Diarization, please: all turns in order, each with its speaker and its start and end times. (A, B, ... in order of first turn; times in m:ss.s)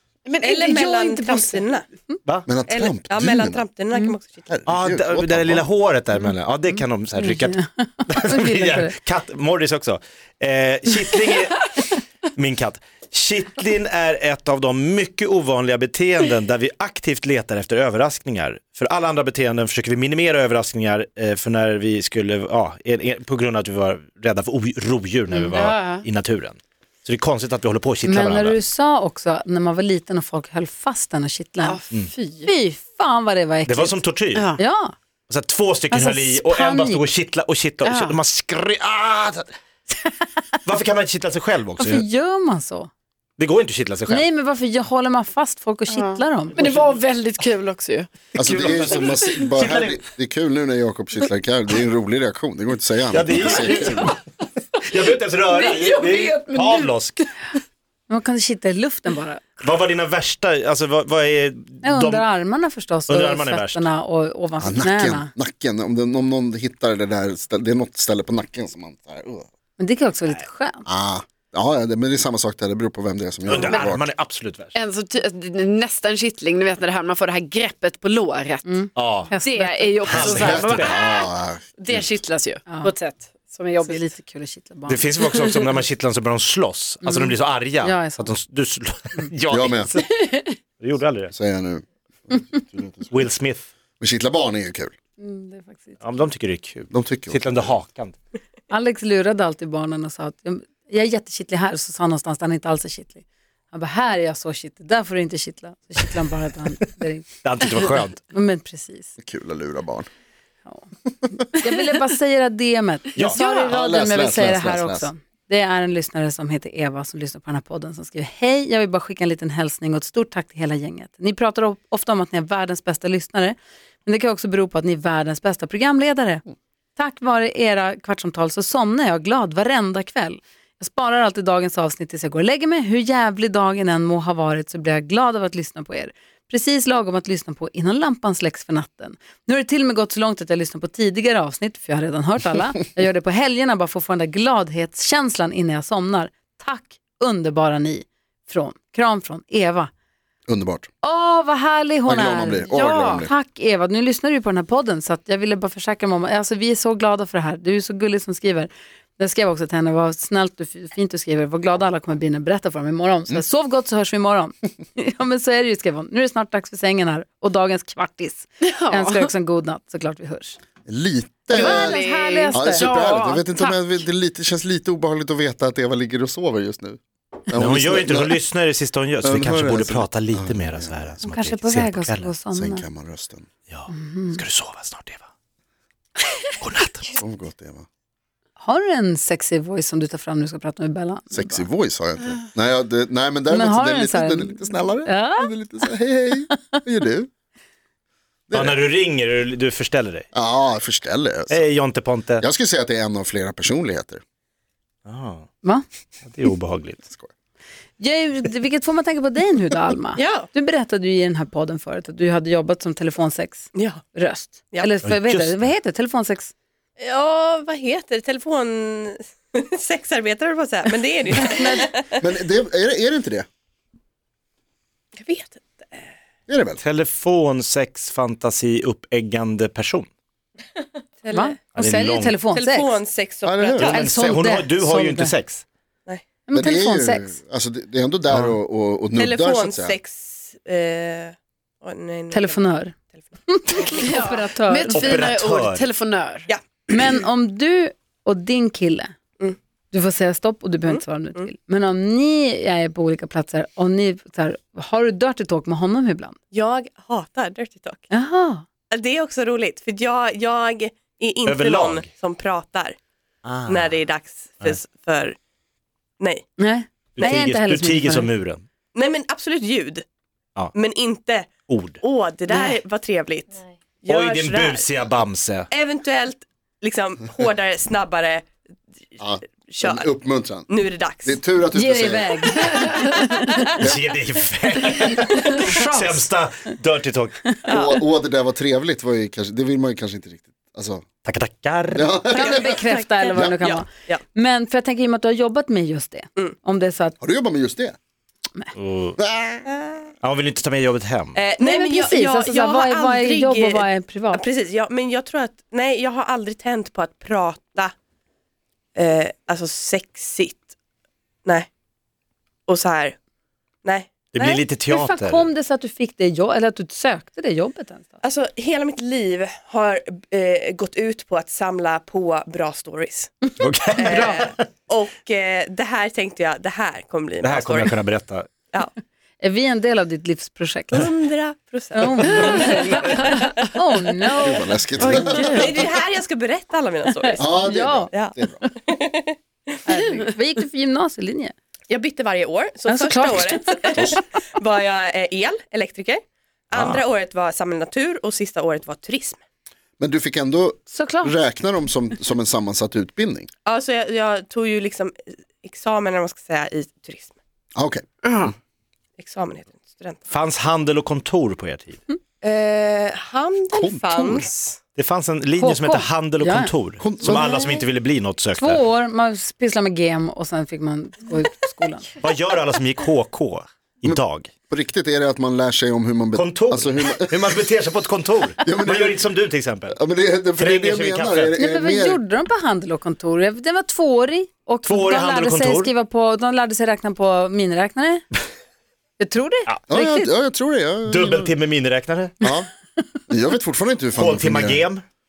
0:00.2-0:01.7 A
0:00.4-0:01.8 B
0:02.5-0:03.6 C
0:02.7-0:04.5 B
0:04.5-0:05.6 C
0:04.7-0:28.6 D
0:06.7-0:09.0 E
0:25.3-0:26.0 A
0:28.0-0:31.8 E
0:31.6-0:32.5 A
0:32.4-0:34.0 E
0:33.7-0:34.5 D
0:34.3-0:34.6 A
0:34.6-0:34.9 E
0:35.3-0:39.6 D
0:35.9-0:37.1 E
0:37.8-0:38.2 A
0:40.7-0:42.1 D
0:41.8-0:42.9 E
0:43.4-0:44.2 D
0:44.1-0:46.6 E
0:45.9-0:48.1 A
0:46.6-0:46.8 D
0:48.4-0:54.2 C
0:48.4-0:50.0 D
0:53.1-0:54.2 D
0:54.8-0:57.2 D
0:55.6-0:56.9 A
0:58.1-0:59.6 E
0:59.6-1:02.2 D
1:01.8-1:05.3 E
1:03.1-1:03.9 D
1:04.6-1:09.5 C
1:09.8-1:10.8 E
1:10.9-1:14.1 C
1:13.5-1:14.8 D
1:14.8-1:21.3 A
1:18.7-1:20.4 E
1:19.0-1:19.3 D
1:20.0-1:20.9 D
1:20.3-1:22.1 C
1:21.8-1:24.1 A
1:23.8-1:25.0 E
1:24.9-1:30.2 D
1:27.0-1:28.4 E
1:29.5-1:29.9 C
1:30.2-1:30.6 A
1:30.8-1:31.3 D
1:31.3-1:33.2 C
1:33.1-1:33.7 D
1:34.0-1:34.9 C
1:35.2-1:36.0 E
1:36.0-1:38.2 D
1:36.9-1:37.7 C
1:38.7-1:49.1 E
1:47.4-1:48.2 D
1:49.2-1:50.1 C
1:51.5-2:06.4 E
1:53.2-1:53.4 D
1:53.4-1:55.1 C
2:07.0-2:29.9 E
2:30.5-2:30.9 C
2:31.0-2:50.6 E
2:32.1-2:33.3 C
2:32.7-2:33.2 A
2:48.6-2:49.3 A
2:50.9-2:52.0 C
2:51.5-2:52.9 E
2:51.5-2:53.8 A
2:52.5-2:58.4 C
2:57.5-3:02.3 D
2:59.2-3:01.2 C
3:01.2-3:02.8 E
3:02.5-3:03.5 C
3:03.7-3:05.2 D
3:03.9-3:04.4 E
3:06.6-3:07.2 D
3:07.2-3:07.9 C
3:08.6-3:11.6 E
3:11.3-3:17.3 C
3:13.5-3:15.5 E
3:18.5-3:18.8 C
3:18.5-3:20.3 D
3:20.3-3:21.6 C
3:21.5-3:22.4 D
3:22.4-3:24.2 C
3:25.1-3:25.5 D
3:26.3-3:27.0 D
3:27.1-3:27.3 C
3:28.0-3:36.5 E
3:30.2-3:30.5 B
3:33.8-3:34.0 B
3:35.0-3:35.7 D
3:37.0-3:42.1 B
3:41.4-3:42.0 E
3:42.2-3:43.5 C
3:45.2-3:46.1 B
3:46.5-3:46.8 C
3:46.8-3:50.1 D
3:51.2-3:51.6 B
3:51.3-3:53.0 E
3:51.8-3:52.4 D
3:52.5-3:54.3 B
3:53.5-3:54.0 C
3:53.8-3:55.6 D
3:53.8-3:55.3 E
3:56.5-3:57.4 E
3:56.5-4:00.0 C
3:58.3-3:58.6 D
3:59.2-4:04.2 B
4:02.3-4:03.0 E
4:03.5-4:05.2 E
4:03.9-4:06.5 A
4:04.9-4:05.9 D
4:06.9-4:09.1 E
4:09.9-4:16.4 E
4:10.9-4:11.5 B
4:16.5-4:18.1 B
4:18.1-4:18.6 E
4:18.9-4:23.0 B
4:21.4-4:22.1 D
4:23.4-4:24.0 D
4:23.7-4:25.4 B
4:26.2-4:26.5 B
4:26.6-4:28.3 E
4:27.2-4:28.6 D
4:28.9-4:30.0 B
4:30.7-4:34.9 B
4:31.7-4:32.0 D
4:32.5-4:32.8 E
4:34.1-4:35.7 D
4:35.7-4:38.5 B
4:39.2-4:40.7 C
4:39.5-4:41.4 B
4:41.2-4:42.6 C
4:41.7-4:43.7 E
4:43.4-4:43.6 B
4:43.8-4:47.5 D
4:45.3-4:46.3 E
4:45.3-4:45.7 B
4:47.7-4:48.0 B
4:47.7-4:51.0 C
4:51.2-4:52.2 D
4:52.0-4:53.7 C
4:52.3-4:54.2 B
4:52.3-4:57.2 E
4:57.2-4:58.0 C
4:58.8-4:59.2 D
4:59.2-4:59.7 C
5:00.2-5:01.4 D
5:01.4-5:07.9 B
5:01.6-5:02.0 A
5:01.7-5:04.4 E
5:09.0-5:10.7 B
5:12.7-5:13.2 B
5:13.8-5:14.6 B
5:14.3-5:15.5 D
5:14.9-5:18.2 E
5:18.2-5:28.0 B
5:23.6-5:24.6 D
5:27.4-5:28.5 D
5:29.4-5:31.1 E
5:30.9-5:33.7 B
5:32.0-5:34.8 E
5:32.3-5:32.9 D
5:34.4-5:35.9 C
5:35.0-5:35.9 A
5:35.0-5:37.5 B
5:37.3-5:38.7 E
5:37.4-5:38.6 C
5:38.9-5:39.4 B
5:39.8-5:41.6 E
5:41.9-5:49.4 B
5:42.9-5:44.2 E
5:46.7-5:47.0 D
5:50.0-5:53.5 C
5:50.9-5:51.3 E
5:53.7-5:57.3 B
5:57.8-5:58.5 C
5:58.2-5:58.5 A
5:59.2-6:00.3 B
6:00.3-6:02.0 D
6:02.4-6:04.8 B
6:03.7-6:04.5 C
6:05.0-6:08.8 D
6:05.6-6:06.7 E
6:07.0-6:07.6 C
6:08.6-6:12.1 E
6:12.2-6:14.5 D
6:14.0-6:17.5 C
6:16.4-6:20.0 D
6:18.6-6:19.3 C
6:19.9-6:22.2 C
6:20.6-6:21.6 D
6:21.6-6:28.2 E
6:24.9-6:25.9 D
6:29.2-6:30.3 E
6:29.9-6:31.4 C
6:31.1-6:32.4 D
6:32.4-6:32.7 C
6:33.3-6:34.9 C
6:34.2-6:35.0 D